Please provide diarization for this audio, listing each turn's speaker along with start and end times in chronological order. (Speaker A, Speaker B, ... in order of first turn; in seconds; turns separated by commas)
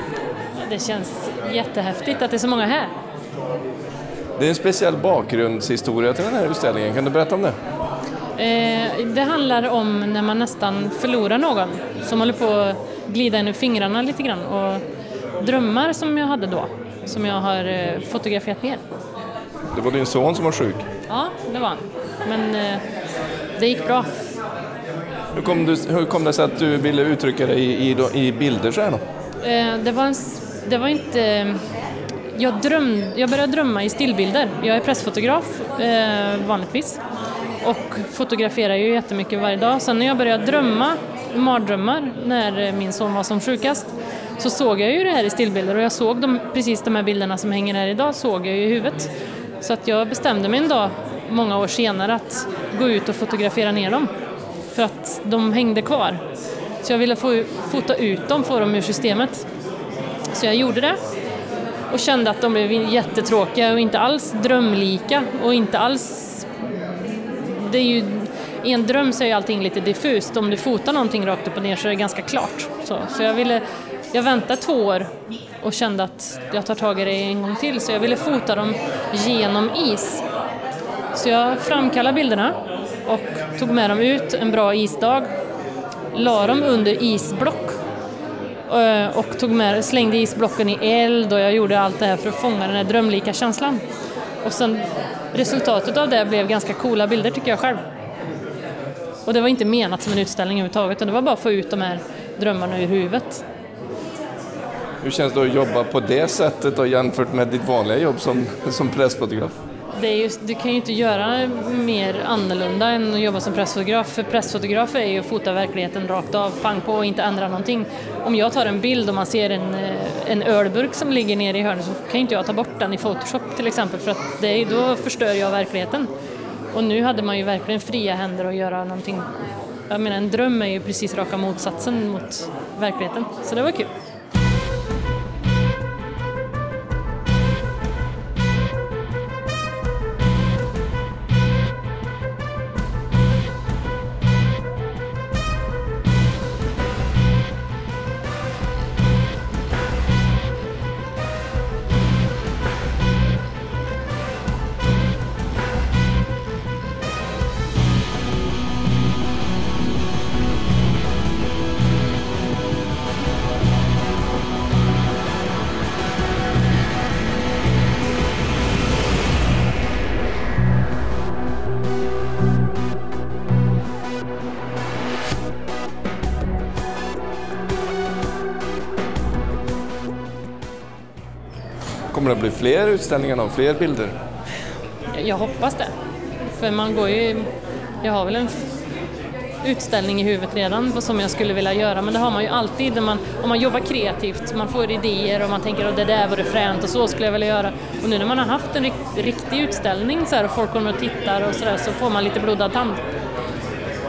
Speaker A: 0.6-2.9, Speaker B: 4.4-7.6, Speaker A: 8.4-14.8, Speaker A: 15.4-18.8, Speaker B: 19.7-20.9, Speaker A: 21.1-22.8, Speaker A: 23.6-24.1, Speaker B: 25.3-29.0, Speaker A: 29.4-31.6, Speaker A: 32.3-37.0, Speaker A: 37.6-49.1, Speaker A: 49.6-54.1, Speaker A: 54.7-56.2, Speaker A: 56.8-59.4, Speaker A: 60.3-61.0, Speaker A: 61.9-75.1, Speaker A: 75.6-80.2, Speaker A: 81.1-85.3, Speaker A: 86.1-87.8, Speaker A: 88.7-93.8, Speaker A: 94.4-97.8, Speaker A: 99.2-103.4, Speaker B: 105.0-109.6, Speaker A: 109.9-126.1, Speaker A: 126.7-129.3, Speaker A: 129.9-133.9, Speaker B: 182.1-184.2, Speaker A: 185.1-185.9, Speaker A: 186.6-187.5, Speaker A: 188.0-188.6, Speaker A: 189.6-203.0